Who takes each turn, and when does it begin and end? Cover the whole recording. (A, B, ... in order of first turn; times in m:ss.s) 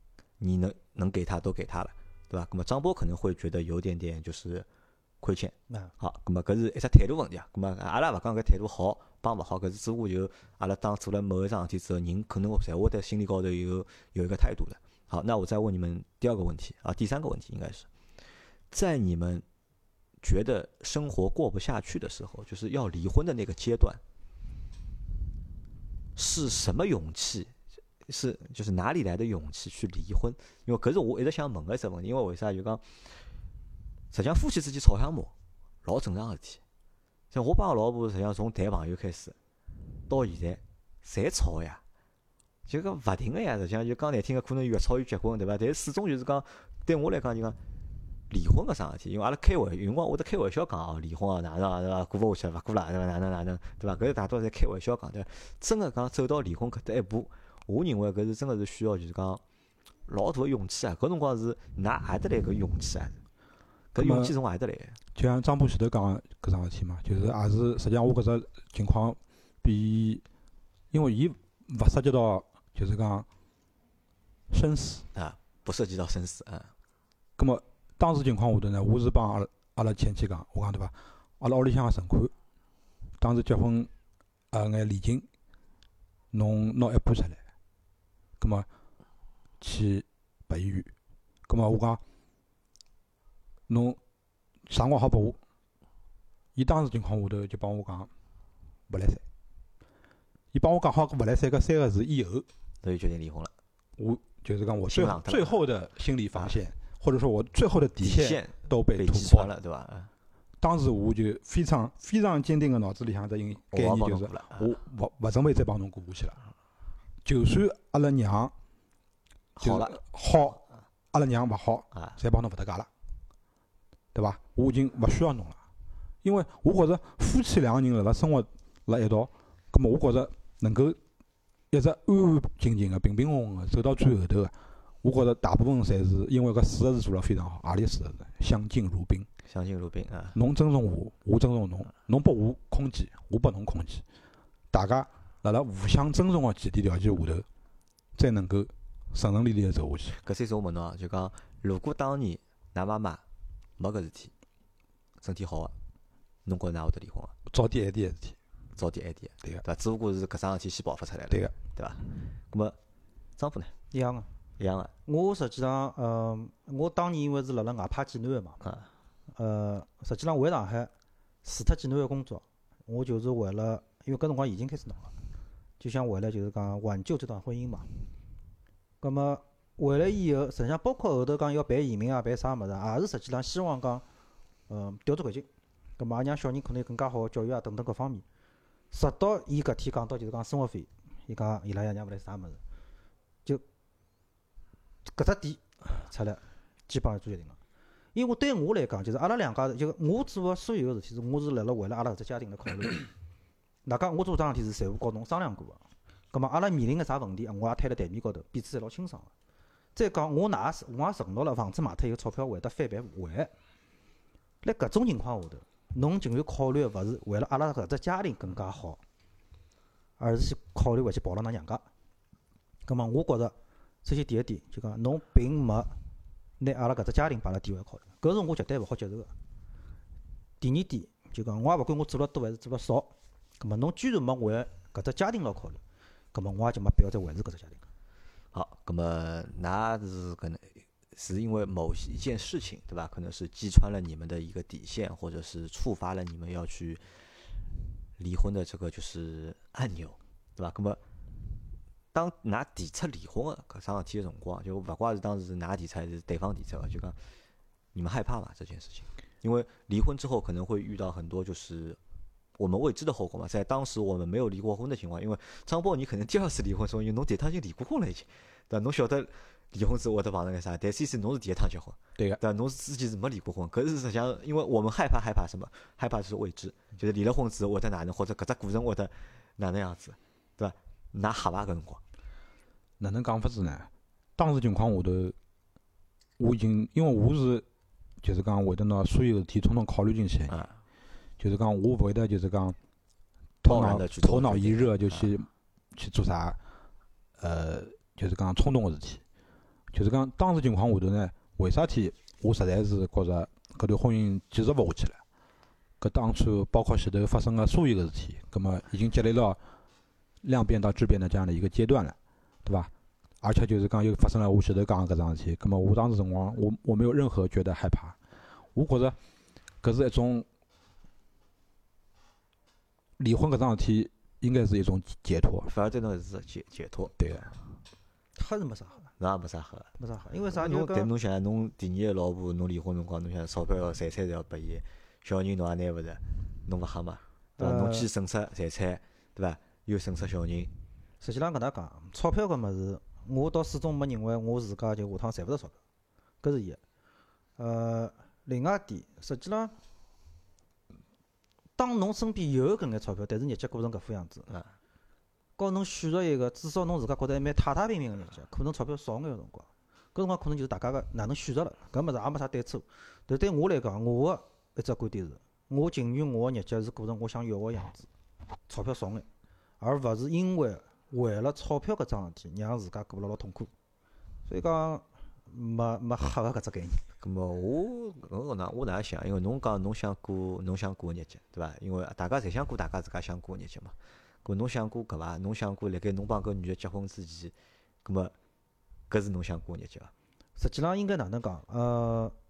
0:00.4-0:04.6 A
0:05.2-0:17.9 A
0:18.7-0:19.4 A
0:20.2-0:24.0 A
0:26.2-0:27.5 A
0:28.0-0:33.2 A
0:34.1-0:35.3 A
0:35.8-0:36.6 A
0:37.3-0:39.4 A
0:40.1-0:41.8 A
0:42.7-0:47.6 A
0:48.3-0:59.4 A
1:00.0-1:03.2 A
1:03.9-1:05.0 A
1:04.0-1:04.3 B
1:05.1-1:10.2 B
1:10.9-1:13.3 B
1:14.5-1:15.0 B
1:15.1-1:16.7 A
1:17.4-1:22.3 B
1:23.2-1:23.9 B
1:24.5-1:25.2 B
1:26.3-1:27.4 B
1:28.4-1:28.7 B
1:29.6-1:30.9 B
1:31.5-1:32.0 B
1:33.7-1:34.0 B
1:34.7-1:35.4 B
1:36.5-1:38.1 B
1:38.9-1:39.2 B
1:40.5-1:42.5 B
1:42.8-1:43.5 A
1:44.0-1:49.5 B
1:44.9-1:45.5 A
1:48.0-1:50.1 A
1:50.6-1:56.4 B
1:53.7-1:54.7 A
1:57.2-1:58.5 B
1:59.6-2:00.0 A
1:59.6-2:00.6 B
2:01.1-2:02.9 B
2:04.1-2:05.6 B
2:06.2-2:11.0 B
2:11.7-2:19.3 B
2:19.5-2:20.4 A
2:20.3-2:24.0 B
2:24.7-2:27.4 B
2:28.2-2:30.2 B
2:30.2-2:33.2 A
2:33.8-2:34.3 A
2:35.2-2:35.7 A
2:36.4-2:37.3 A
2:37.5-2:38.4 B
2:38.8-2:42.8 A
2:43.4-2:43.7 A
2:43.9-2:44.3 C
2:44.6-2:44.9 A
2:45.0-2:48.6 C
2:49.3-2:50.9 C
2:51.4-2:55.1 C
2:55.8-2:57.9 C
2:59.0-3:04.0 C
3:04.7-3:05.5 C
3:06.0-3:08.2 C
3:08.9-3:12.6 C
3:15.0-3:17.6 C
3:18.1-3:23.1 C
3:23.8-3:29.3 C
3:29.9-3:33.5 C
3:34.6-3:39.0 C
3:40.2-3:41.8 C
3:42.8-3:45.9 C
3:46.6-3:49.3 C
3:50.6-3:55.8 C
3:56.3-3:57.8 C
3:58.5-4:07.0 A
4:08.2-4:11.0 A
4:12.1-4:17.2 A
4:17.9-4:22.0 A
4:22.6-4:42.0 A
4:43.0-4:45.3 B
4:46.4-4:47.6 B
4:48.2-4:50.6 B
4:50.5-4:50.8 A
4:51.4-4:52.8 B
4:53.6-4:56.6 B
4:53.6-4:55.3 A
4:57.4-4:59.2 B
4:59.9-5:05.2 B
5:06.0-5:09.6 B
5:10.4-5:12.9 B
5:13.4-5:18.2 B
5:18.7-5:19.2 B
5:19.8-5:20.5 B
5:23.2-5:25.7 B
5:25.6-5:27.5 A
5:27.2-5:27.5 B
5:28.4-5:29.1 C
5:29.2-5:29.9 A
5:30.0-5:31.1 C
5:30.5-5:40.7 A
5:37.6-5:38.1 C
5:41.2-5:45.7 C
5:46.4-5:46.8 C
5:47.6-5:49.7 C
5:51.8-5:54.5 C
5:55.6-6:08.1 C
6:08.7-6:09.2 C
6:09.8-6:13.7 C
6:14.5-6:17.0 C
6:17.2-6:23.9 A
6:24.4-6:28.3 A
6:29.1-6:30.1 A
6:30.6-6:32.3 C